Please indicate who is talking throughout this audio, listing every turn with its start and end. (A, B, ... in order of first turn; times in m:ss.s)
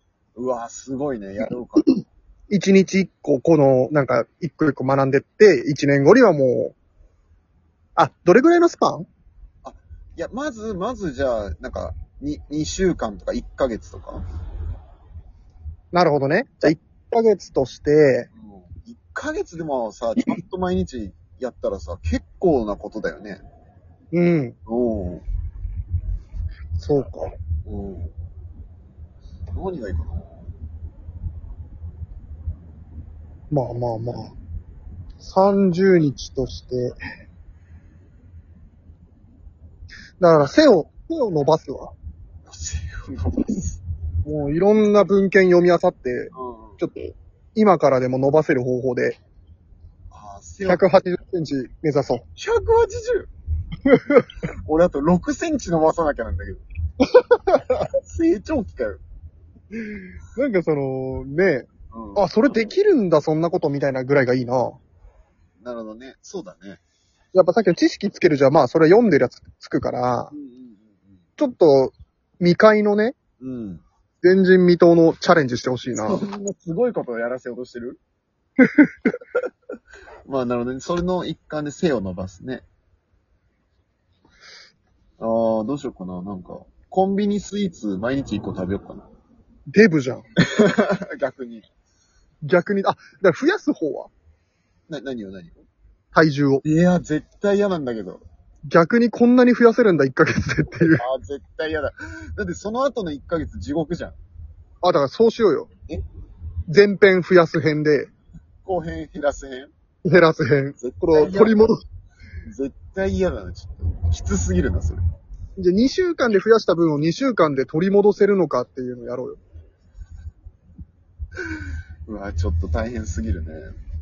0:00.4-0:01.9 A
0:02.5-0:06.8 B
0:08.0-0:09.1 B
0:09.6-0:14.2 A
0:15.9-0:18.3 B
0:18.3-0:23.4 A
0:24.1-0:24.6 B
0:24.7-0:25.2 A
0:26.8-0:27.3 B
0:27.7-0:28.1 A
0:29.5-0:30.4 A
0:33.5-0:34.3 B
0:35.2-0:37.0 B
0:40.2-0:41.9 B
0:42.5-0:43.8 A
0:44.2-0:49.2 B
0:46.3-0:46.8 A
0:50.1-0:50.9 A
0:50.7-0:52.2 B
0:52.4-0:53.3 A
0:53.9-0:54.2 B
0:54.7-0:56.6 A
0:57.3-0:57.6 B
0:58.0-0:59.0 A
1:00.4-1:04.8 B
1:01.9-1:02.2 A
1:05.6-1:06.8 A
1:07.3-1:10.3 B
1:10.3-1:11.2 A
1:11.4-1:13.2 B
1:13.4-1:13.8 A
1:14.2-1:16.2 B
1:15.9-1:18.0 A
1:20.3-1:22.7 A
1:25.2-1:29.1 A
1:29.7-1:30.3 B
1:30.5-1:31.7 A
1:32.4-1:34.1 B
1:34.9-1:35.6 A
1:36.1-1:36.6 B
1:36.6-1:38.2 A
1:38.7-1:41.0 B
1:40.8-1:44.2 A
1:44.8-1:45.7 B
1:46.7-1:48.1 B
1:48.6-1:49.7 A
1:50.1-1:51.8 B
1:50.8-1:51.6 A
1:52.5-1:55.0 A
1:55.6-1:59.4 B
2:02.1-2:03.7 A